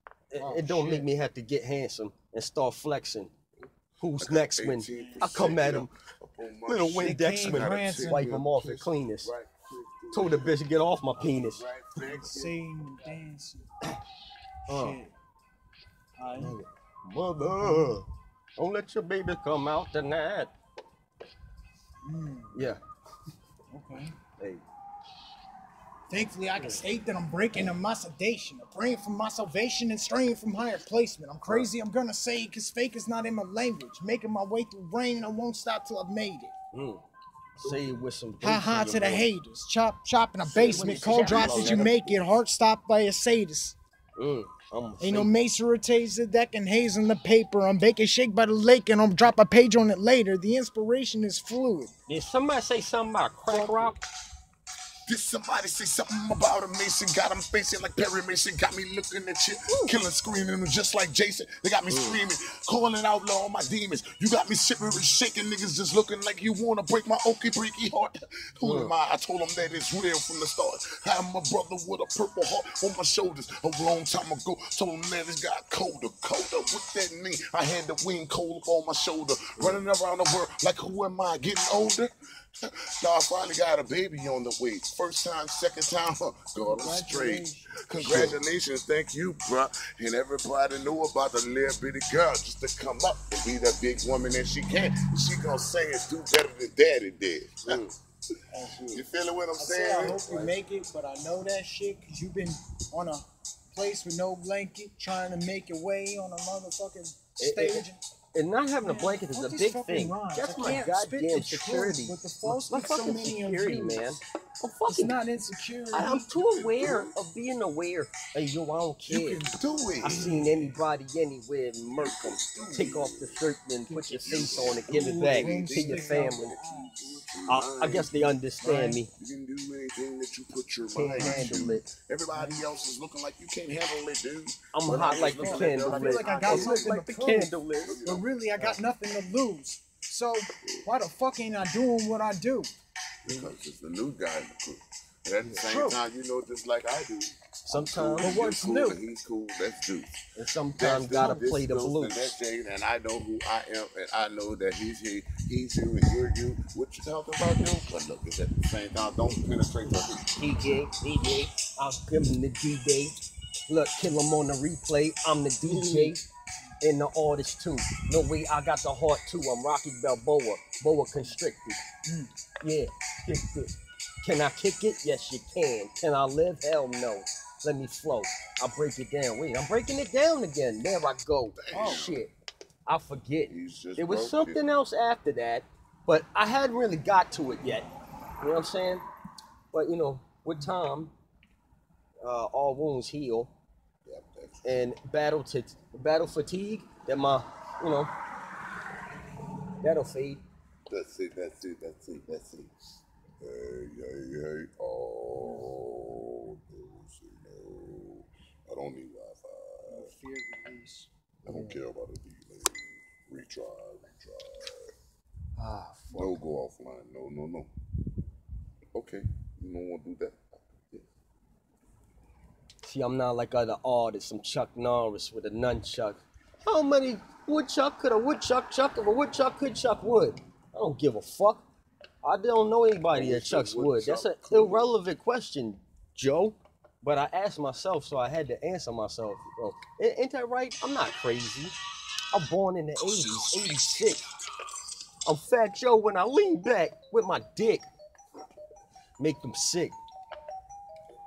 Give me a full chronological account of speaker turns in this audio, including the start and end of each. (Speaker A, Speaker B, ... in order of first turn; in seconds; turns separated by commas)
Speaker A: 0.3-3.3, Speaker B: 0.3-1.1, Speaker A: 4.0-5.9, Speaker C: 4.2-12.6, Speaker B: 4.9-5.5, Speaker A: 6.7-9.3, Speaker B: 7.0-8.3, Speaker A: 10.1-11.6, Speaker B: 12.0-13.7, Speaker B: 14.7-15.1, Speaker A: 14.7-15.0, Speaker B: 16.2-16.6, Speaker A: 16.4-18.1, Speaker B: 17.6-18.0, Speaker A: 18.6-20.5, Speaker B: 22.0-22.7, Speaker A: 22.5-22.8, Speaker B: 23.7-24.1, Speaker A: 24.4-24.6, Speaker B: 26.1-36.5, Speaker A: 36.7-37.0, Speaker C: 37.6-38.0, Speaker A: 37.6-39.3, Speaker B: 38.4-43.8, Speaker C: 40.4-42.2, Speaker A: 40.6-42.0, Speaker A: 44.1-45.3, Speaker B: 45.0-51.9, Speaker A: 52.1-54.0, Speaker B: 53.5-53.9, Speaker C: 55.1-82.1, Speaker A: 59.7-59.9, Speaker A: 61.9-62.2, Speaker A: 68.6-68.9, Speaker C: 82.6-97.8, Speaker B: 86.6-88.3, Speaker A: 97.6-98.0, Speaker A: 98.6-99.0, Speaker C: 98.9-100.2, Speaker B: 99.6-108.0, Speaker A: 100.2-100.5, Speaker A: 107.4-115.2, Speaker B: 108.8-114.2, Speaker B: 114.9-116.3, Speaker A: 115.9-119.4, Speaker C: 116.3-117.1, Speaker B: 119.1-120.6, Speaker C: 119.6-120.4, Speaker A: 120.0-126.6, Speaker C: 122.0-123.4, Speaker B: 123.9-127.1, Speaker C: 124.2-128.3, Speaker A: 127.5-129.1, Speaker B: 128.6-129.0, Speaker C: 129.1-136.9, Speaker A: 130.9-131.9, Speaker B: 131.1-131.8, Speaker B: 132.3-132.6, Speaker A: 134.7-138.0, Speaker B: 135.1-137.5, Speaker C: 137.8-138.2, Speaker B: 138.0-142.7, Speaker C: 143.2-150.2, Speaker B: 145.6-146.0, Speaker A: 147.7-148.4, Speaker B: 148.2-149.0, Speaker A: 150.3-152.3, Speaker C: 150.7-160.4, Speaker B: 151.1-151.4, Speaker A: 160.3-163.2, Speaker A: 163.7-166.2, Speaker B: 165.6-166.2, Speaker A: 166.8-171.8, Speaker B: 172.1-172.3, Speaker A: 172.6-182.3, Speaker C: 181.6-182.2, Speaker B: 181.7-182.0, Speaker A: 182.8-187.9, Speaker C: 183.5-184.6, Speaker A: 188.4-189.0, Speaker A: 189.7-191.1, Speaker A: 192.2-193.5, Speaker C: 194.1-194.9, Speaker A: 194.6-198.1, Speaker A: 199.8-200.4, Speaker C: 200.9-210.1, Speaker B: 209.9-211.1, Speaker C: 211.4-214.9, Speaker A: 211.5-211.8, Speaker A: 215.6-216.4, Speaker C: 216.1-217.7, Speaker C: 218.9-220.4, Speaker A: 222.8-231.6, Speaker A: 232.2-241.7, Speaker C: 233.1-234.9, Speaker A: 242.3-244.2, Speaker A: 245.2-247.8, Speaker A: 249.2-249.9